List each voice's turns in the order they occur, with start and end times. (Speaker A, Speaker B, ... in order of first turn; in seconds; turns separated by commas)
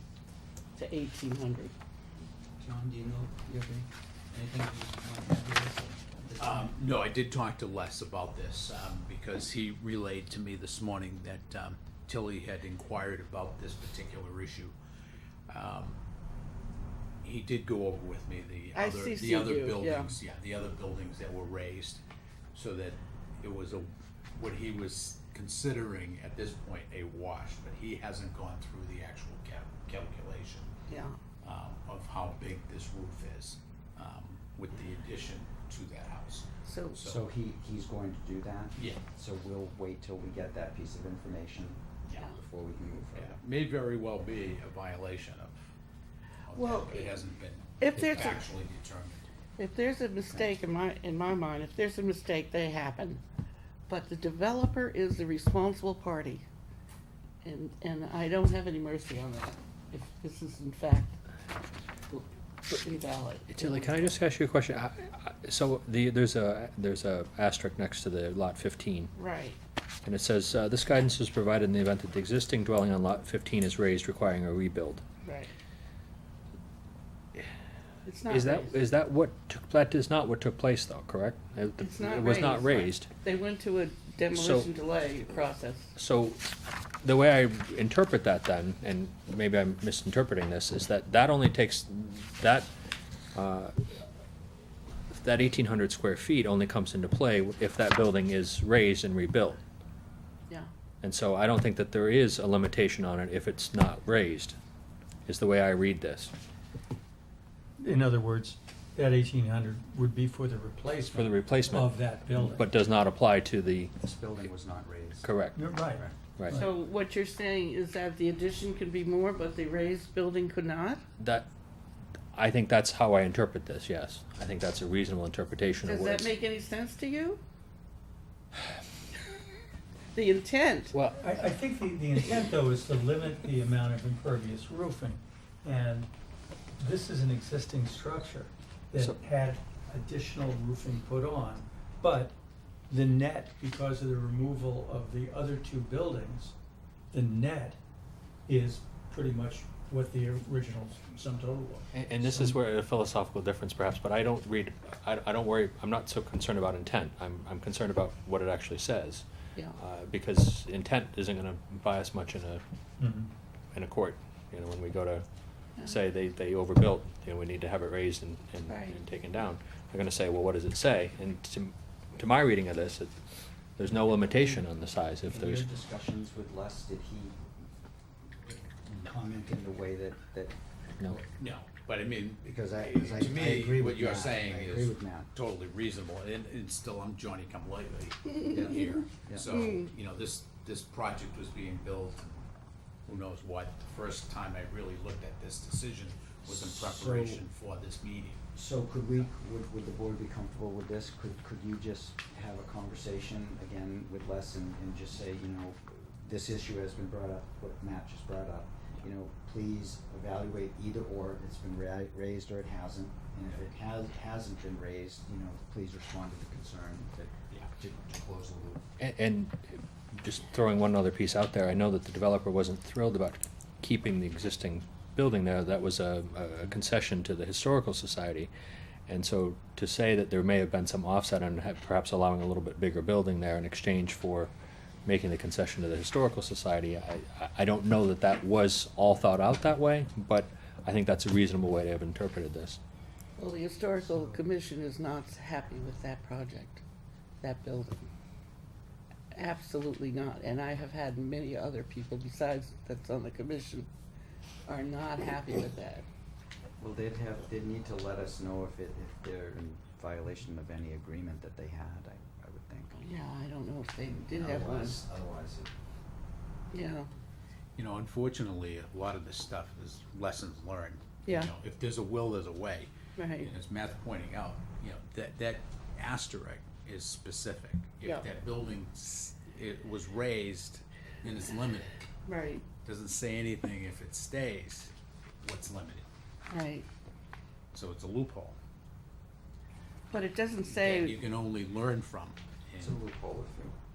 Speaker A: 0.8-1.7, Speaker B: 2.6-6.8, Speaker C: 6.4-14.8, Speaker C: 15.5-16.0, Speaker C: 17.2-22.0, Speaker A: 18.7-20.1, Speaker C: 22.5-30.7, Speaker A: 30.9-31.2, Speaker C: 31.4-37.2, Speaker A: 36.6-37.0, Speaker B: 37.0-43.4, Speaker C: 38.8-39.0, Speaker C: 43.1-45.6, Speaker C: 46.5-49.2, Speaker A: 46.5-47.1, Speaker A: 47.8-48.4, Speaker A: 49.6-53.2, Speaker A: 53.9-56.5, Speaker A: 57.4-61.2, Speaker A: 62.1-64.1, Speaker D: 63.5-69.1, Speaker A: 69.2-69.6, Speaker D: 70.0-75.0, Speaker A: 75.2-75.5, Speaker A: 78.0-78.8, Speaker D: 78.3-83.1, Speaker A: 81.8-86.0, Speaker D: 84.3-84.7, Speaker D: 86.0-86.5, Speaker D: 87.0-92.7, Speaker D: 93.3-93.7, Speaker D: 95.1-99.6, Speaker D: 101.0-104.6, Speaker D: 105.3-106.3, Speaker E: 107.8-112.6, Speaker D: 111.2-113.9, Speaker B: 114.0-116.2, Speaker D: 115.2-115.6, Speaker E: 115.6-116.7, Speaker A: 116.5-121.0, Speaker D: 121.2-121.5, Speaker D: 122.3-126.3, Speaker A: 125.8-127.4, Speaker A: 130.1-131.0, Speaker D: 130.9-131.2, Speaker E: 131.2-136.1, Speaker E: 136.8-142.4, Speaker E: 142.9-146.6, Speaker E: 147.1-147.8, Speaker E: 148.5-152.6, Speaker D: 151.9-162.6, Speaker E: 163.0-163.3, Speaker D: 163.7-165.3, Speaker D: 165.8-173.1, Speaker A: 168.7-169.0, Speaker D: 173.8-175.7, Speaker B: 175.3-177.4, Speaker B: 178.4-181.3, Speaker C: 181.4-192.5, Speaker B: 182.4-185.3, Speaker A: 189.5-189.8, Speaker C: 193.1-198.4, Speaker B: 196.5-197.4, Speaker B: 198.6-218.9, Speaker D: 219.0-228.5, Speaker D: 229.1-234.5, Speaker D: 235.1-242.8, Speaker A: 243.4-246.8, Speaker A: 247.4-248.1, Speaker A: 249.3-253.9, Speaker A: 254.7-256.1, Speaker B: 256.8-263.1, Speaker A: 263.0-265.0, Speaker B: 264.1-265.7, Speaker A: 266.7-267.1, Speaker C: 267.8-282.0, Speaker A: 271.2-271.5, Speaker A: 273.2-273.5, Speaker A: 282.3-282.6, Speaker C: 282.9-286.1, Speaker A: 286.5-286.9, Speaker C: 287.7-288.6, Speaker A: 290.1-291.2, Speaker C: 290.7-293.0, Speaker B: 292.8-293.8